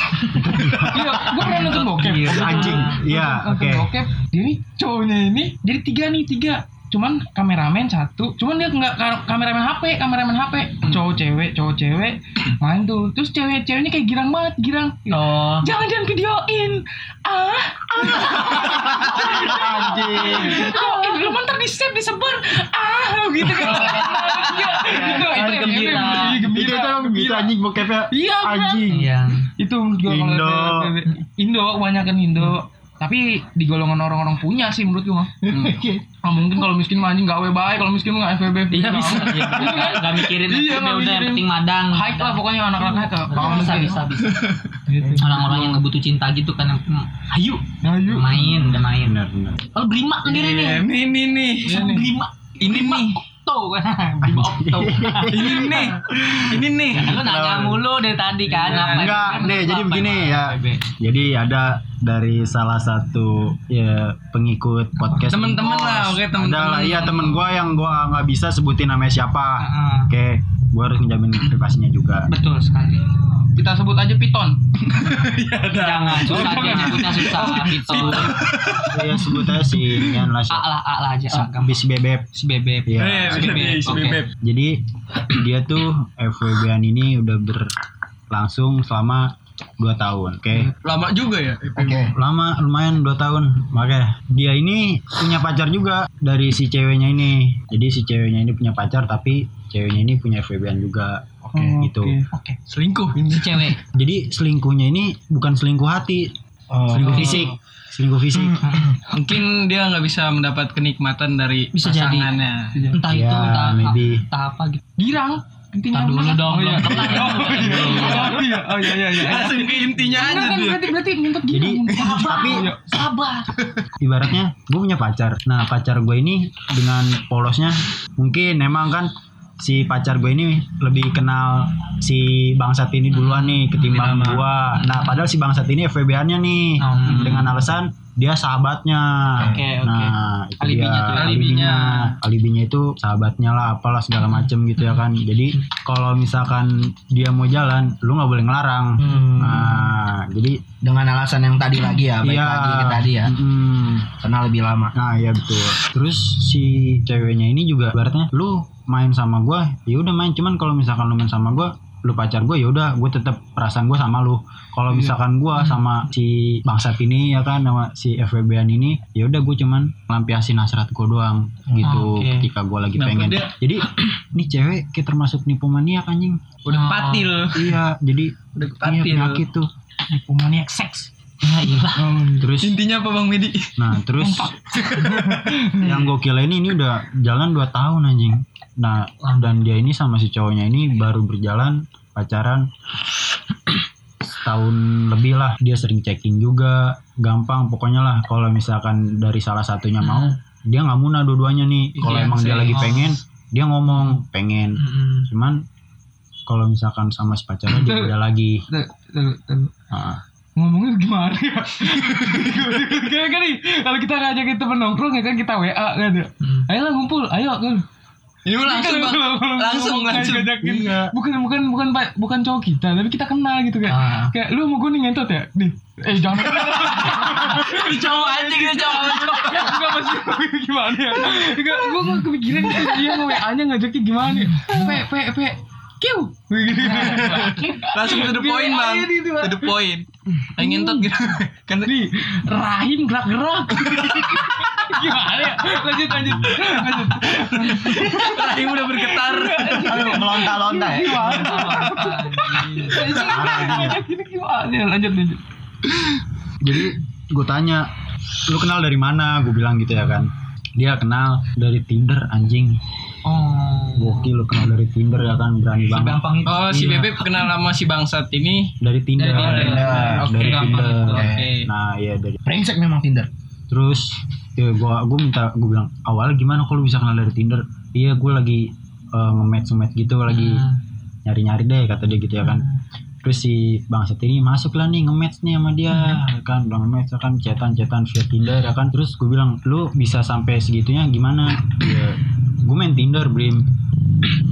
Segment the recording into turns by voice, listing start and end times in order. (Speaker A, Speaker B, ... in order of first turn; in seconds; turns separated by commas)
Speaker A: 0.3-3.0, Speaker B: 0.4-1.4, Speaker C: 0.8-27.5, Speaker B: 2.2-3.9, Speaker A: 15.1-15.7, Speaker B: 18.0-20.8, Speaker A: 19.4-21.2, Speaker A: 23.5-26.5, Speaker B: 25.2-29.1, Speaker C: 28.1-28.9, Speaker A: 28.9-29.5, Speaker C: 29.6-35.5, Speaker B: 30.1-30.9, Speaker D: 35.5-35.8, Speaker E: 35.5-36.0, Speaker C: 36.1-44.0, Speaker A: 38.7-44.5, Speaker D: 44.2-44.7, Speaker C: 44.9-45.8, Speaker A: 45.1-49.2, Speaker C: 47.8-48.7, Speaker B: 48.8-49.7, Speaker A: 49.7-50.9, Speaker D: 50.2-52.0, Speaker A: 51.6-55.9, Speaker C: 51.7-52.1, Speaker D: 52.6-53.2, Speaker B: 54.2-57.9, Speaker D: 55.3-57.1, Speaker A: 56.9-60.8, Speaker D: 58.5-59.4, Speaker B: 58.8-72.3, Speaker A: 65.0-65.3, Speaker D: 65.3-67.5, Speaker A: 69.6-70.1, Speaker A: 72.3-73.1, Speaker C: 73.5-75.1, Speaker D: 74.9-79.0, Speaker A: 75.7-78.5, Speaker C: 76.2-78.3, Speaker B: 78.8-80.7, Speaker A: 80.5-81.8, Speaker B: 81.4-82.3, Speaker A: 82.3-84.2, Speaker B: 82.9-83.7, Speaker D: 83.0-84.3, Speaker B: 84.4-87.7, Speaker B: 88.3-90.7, Speaker D: 90.8-92.1, Speaker E: 91.8-92.2, Speaker B: 92.1-102.2, Speaker E: 101.5-101.8, Speaker C: 101.5-102.3, Speaker A: 102.3-102.6, Speaker D: 102.7-103.8, Speaker A: 103.2-103.8, Speaker B: 103.9-106.3, Speaker E: 106.7-107.5, Speaker B: 106.9-108.8, Speaker A: 107.1-107.5, Speaker A: 108.6-109.0, Speaker D: 109.1-112.9, Speaker A: 111.7-112.3, Speaker C: 112.7-113.0, Speaker A: 112.9-114.8, Speaker B: 113.1-114.2, Speaker C: 115.0-123.0, Speaker A: 115.9-118.5, Speaker D: 118.9-121.0, Speaker B: 121.5-122.7, Speaker A: 122.0-123.5, Speaker B: 124.0-150.6, Speaker A: 133.1-135.2, Speaker A: 136.8-137.7, Speaker E: 139.4-139.6, Speaker A: 139.4-140.1, Speaker A: 140.7-141.5, Speaker D: 141.0-142.1, Speaker A: 144.2-145.0, Speaker E: 149.0-149.9, Speaker E: 150.8-153.3, Speaker B: 152.2-154.1, Speaker E: 154.2-155.0, Speaker B: 154.9-176.4, Speaker A: 165.6-165.8, Speaker A: 171.8-172.5, Speaker D: 173.0-173.3, Speaker A: 173.2-173.5, Speaker D: 176.7-177.8, Speaker A: 176.7-177.4, Speaker B: 177.5-179.7, Speaker D: 178.6-179.4, Speaker C: 180.1-181.1, Speaker A: 181.4-182.2, Speaker C: 181.8-182.4, Speaker B: 182.4-182.8, Speaker D: 182.6-183.7, Speaker B: 183.8-184.5, Speaker C: 184.2-186.0, Speaker D: 184.9-185.5, Speaker B: 185.7-192.7, Speaker A: 189.2-189.5, Speaker B: 194.2-205.6, Speaker A: 200.0-200.4, Speaker D: 202.0-202.9, Speaker A: 202.0-203.2, Speaker A: 204.8-205.3, Speaker B: 206.5-208.7, Speaker C: 207.7-208.1, Speaker C: 208.7-209.7, Speaker B: 209.9-210.2, Speaker C: 210.6-217.8, Speaker D: 218.5-220.6, Speaker C: 218.7-239.8, Speaker B: 220.6-221.1, Speaker A: 223.9-224.3, Speaker D: 226.7-229.8, Speaker A: 234.4-235.0, Speaker A: 236.8-237.7, Speaker D: 236.9-240.1, Speaker D: 240.6-241.9, Speaker C: 240.6-241.1, Speaker C: 241.9-255.4, Speaker B: 246.1-246.7, Speaker D: 247.7-249.9, Speaker E: 249.8-251.4, Speaker A: 251.2-253.1, Speaker B: 253.2-254.0, Speaker B: 256.6-257.9, Speaker B: 258.5-262.8, Speaker A: 263.2-264.4, Speaker B: 264.0-266.2, Speaker A: 265.9-267.1, Speaker D: 266.5-271.0, Speaker B: 268.8-272.4, Speaker A: 269.2-271.6, Speaker E: 269.3-271.5, Speaker E: 272.4-273.3, Speaker B: 273.7-280.6, Speaker A: 280.3-280.8, Speaker B: 281.2-282.7, Speaker A: 282.4-282.8, Speaker B: 283.2-293.7, Speaker A: 285.9-286.2